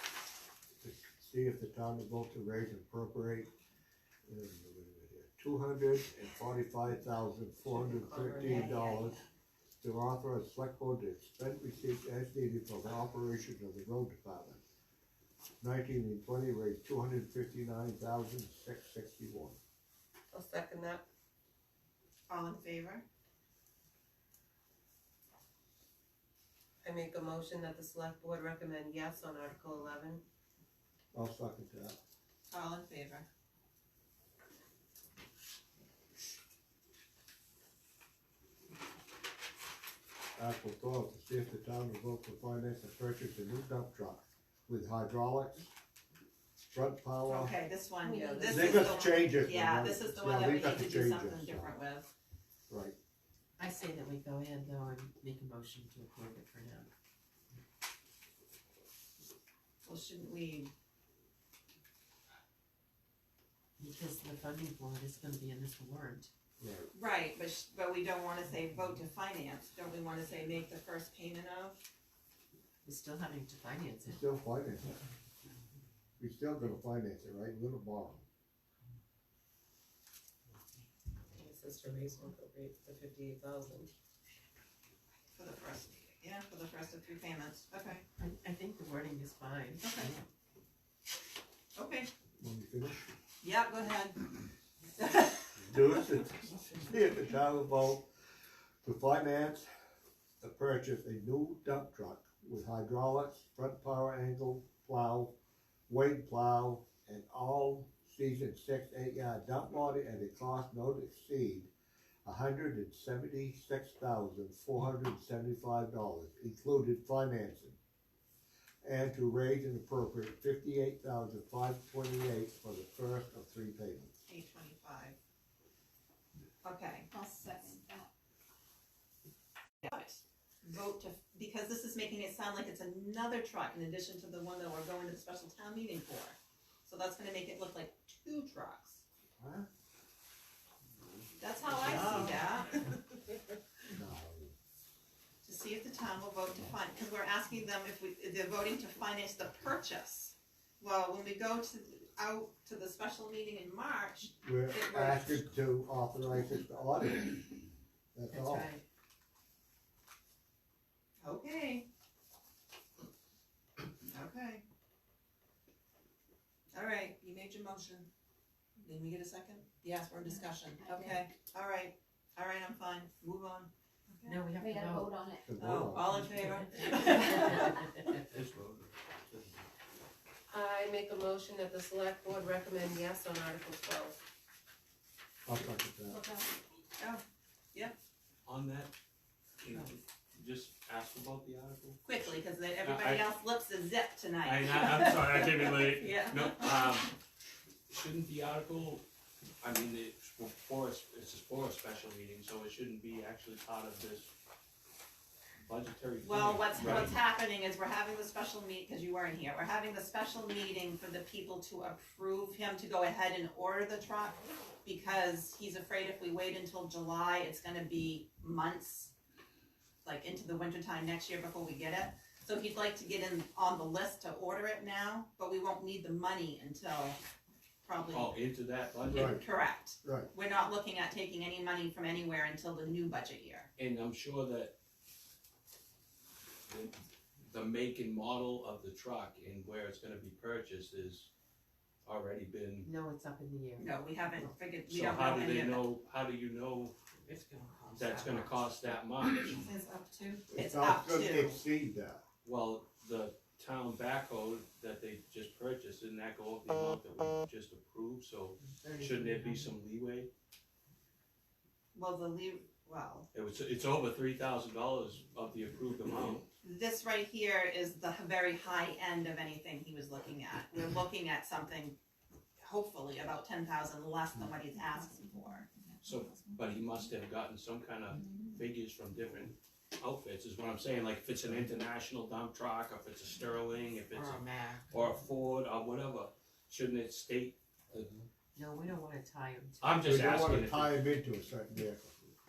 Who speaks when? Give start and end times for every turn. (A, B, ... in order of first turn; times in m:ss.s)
0:00.8-0:03.5 A
0:04.2-0:09.2 A
0:08.4-0:09.2 B
0:09.8-0:14.6 A
0:15.6-0:19.6 A
0:20.3-0:21.0 C
0:22.3-0:23.0 B
0:26.8-0:30.2 C
0:31.1-0:32.0 A
0:32.5-0:33.3 B
0:40.4-0:45.7 A
0:46.7-0:47.5 A
0:47.2-0:52.1 B
0:48.0-0:48.7 D
0:48.5-0:51.7 A
0:52.7-0:52.9 A
0:53.6-0:56.9 D
0:59.8-1:00.7 B
1:03.8-1:06.3 D
1:06.6-1:06.9 A
1:06.9-1:11.8 B
1:12.8-1:14.2 D
1:14.0-1:15.0 A
1:16.2-1:18.2 A
1:21.3-1:23.9 C
1:25.3-1:28.0 B
1:28.1-1:29.8 D
1:29.8-1:30.1 B
1:31.7-1:32.1 B
1:32.4-1:33.0 A
1:33.4-1:34.3 B
1:35.0-1:35.6 B
1:35.6-1:38.0 A
1:38.8-1:39.6 A
1:40.4-1:45.3 A
1:45.9-1:51.7 A
1:52.2-1:57.8 A
1:58.8-2:04.1 A
2:04.3-2:05.1 B
2:06.6-2:07.1 B
2:07.1-2:08.1 E
2:09.8-2:19.0 B
2:19.4-2:19.7 A
2:21.4-2:22.8 B
2:21.9-2:22.3 A
2:23.9-2:24.5 A
2:25.4-2:35.5 B
2:34.4-2:38.7 A
2:38.3-2:38.8 D
2:41.2-2:41.8 B
2:44.0-2:44.6 B
2:46.7-2:48.1 B
2:48.8-2:54.4 B
2:50.7-2:51.2 E
2:54.2-2:55.1 D
2:54.6-2:55.5 E
2:55.4-2:56.4 A
2:55.6-2:58.1 B
2:58.3-2:59.3 F
3:00.5-3:04.2 C
3:05.4-3:06.2 A
3:08.4-3:08.9 F
3:09.6-3:13.3 F
3:12.0-3:16.9 B
3:14.4-3:17.1 F
3:17.9-3:19.0 F
3:19.6-3:24.3 F
3:25.6-3:27.1 F
3:26.2-3:39.1 B
3:40.0-3:47.2 B
3:47.8-3:48.4 B
3:48.1-3:49.4 F
3:49.1-3:53.7 B
3:49.1-3:49.4 A
3:50.0-3:50.3 A
3:53.8-3:54.7 F
3:56.7-4:01.3 F
4:02.0-4:02.9 F
4:02.8-4:04.5 D
4:03.8-4:05.8 B
4:04.9-4:07.0 F
4:07.2-4:08.6 D
4:07.9-4:09.6 F
4:09.4-4:11.6 B
4:10.5-4:12.2 A
4:12.4-4:20.3 F
4:18.6-4:19.7 D
4:21.9-4:23.3 B
4:23.3-4:26.4 F
4:26.6-4:32.0 B
4:32.6-4:35.7 B
4:36.0-4:48.1 F
4:44.1-4:44.9 D
4:48.5-4:49.9 D
4:49.8-4:51.0 F
4:50.0-4:52.1 A